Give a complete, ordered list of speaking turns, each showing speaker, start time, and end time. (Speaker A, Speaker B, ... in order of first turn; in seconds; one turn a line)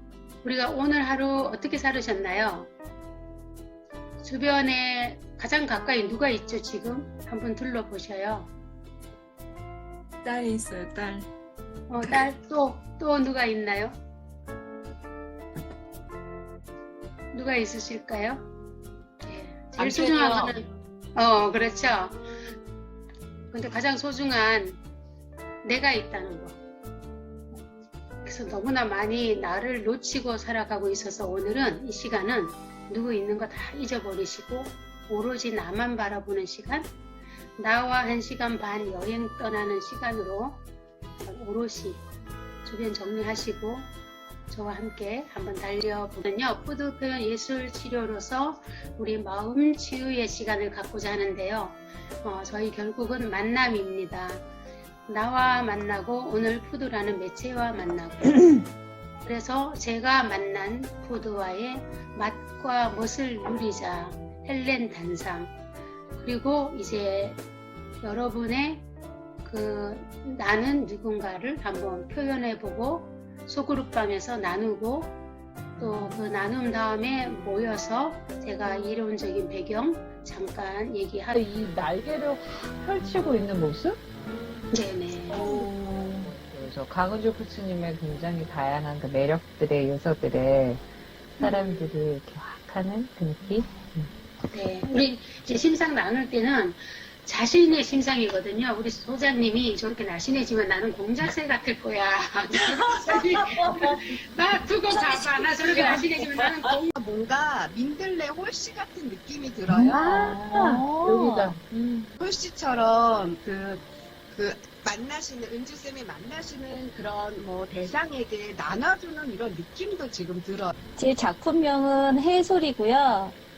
Speaker A: 0.4-2.7
Speaker A: 4.2-8.5
Speaker A: 11.9-13.9
Speaker A: 17.3-18.4
Speaker A: 19.2-20.6
Speaker B: 19.8-20.5
Speaker A: 21.1-22.2
Speaker A: 23.5-24.8
Speaker A: 25.6-26.6
Speaker A: 28.2-36.9
Speaker A: 37.6-40.6
Speaker A: 41.2-42.0
Speaker A: 42.6-43.9
Speaker A: 44.5-54.4
Speaker A: 55.1-58.6
Speaker A: 59.2-65.5
Speaker A: 66.2-67.4
Speaker A: 68.0-68.8
Speaker A: 69.4-75.1
Speaker A: 75.8-81.4
Speaker C: 81.3-84.0
Speaker A: 84.7-85.5
Speaker C: 86.2-90.8
Speaker C: 91.4-94.1
Speaker A: 91.4-92.0
Speaker A: 94.5-106.9
Speaker D: 105.2-110.1
Speaker B: 109.9-111.5
Speaker C: 110.0-112.1
Speaker D: 112.2-120.7
Speaker B: 121.0-123.3